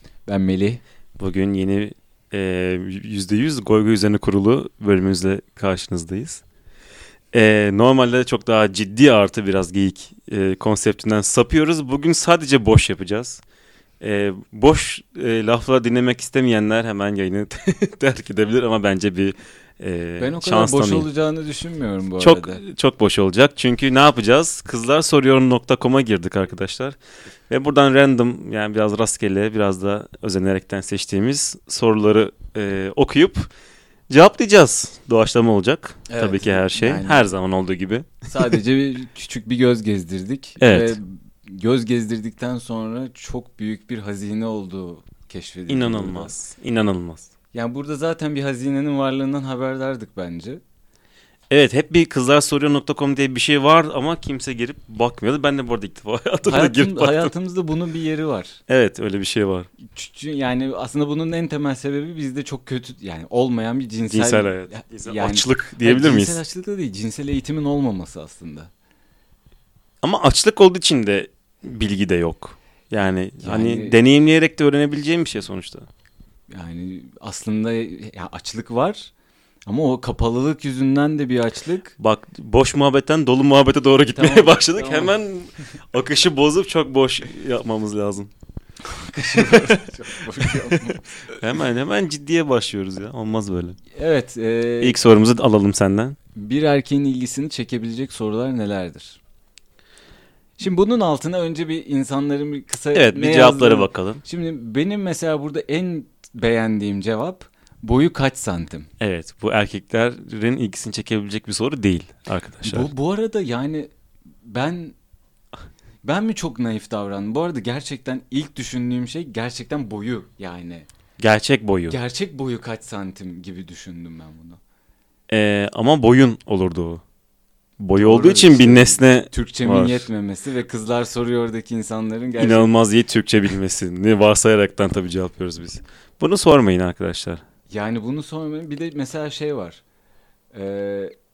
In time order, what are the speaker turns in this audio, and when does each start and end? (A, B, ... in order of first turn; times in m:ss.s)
0:00.3-0:00.8 A
0:01.2-0:06.4 B
0:07.3-0:13.4 B
0:14.0-0:21.1 B
0:20.2-0:22.6 A
0:22.2-0:27.0 B
0:27.5-0:33.5 B
0:34.1-0:38.6 B
0:36.1-0:37.3 A
0:38.3-0:46.3 A
0:40.6-0:41.0 B
0:45.7-0:47.3 B
0:47.5-0:50.6 A
0:51.5-0:57.3 B
0:56.4-0:58.6 A
0:58.7-0:59.7 B
0:59.9-1:08.7 A
1:04.1-1:06.4 B
1:10.0-1:15.9 B
1:13.4-1:14.0 A
1:16.5-1:19.1 A
1:19.7-1:21.9 A
1:22.0-1:28.3 B
1:24.1-1:25.2 A
1:28.8-1:31.4 A
1:29.3-1:33.8 B
1:33.9-1:35.0 A
1:34.8-1:36.2 B
1:36.3-1:39.2 A
1:40.6-1:48.9 A
1:42.9-1:44.2 B
1:49.0-1:52.9 B
1:52.6-1:53.9 A
1:54.4-1:55.0 A
1:56.0-2:00.9 A
2:01.2-2:02.0 B
2:01.9-2:04.6 A
2:05.3-2:07.0 B
2:07.8-2:10.1 B
2:08.0-2:12.7 A
2:12.4-2:17.4 B
2:17.7-2:19.8 A
2:20.5-2:21.1 A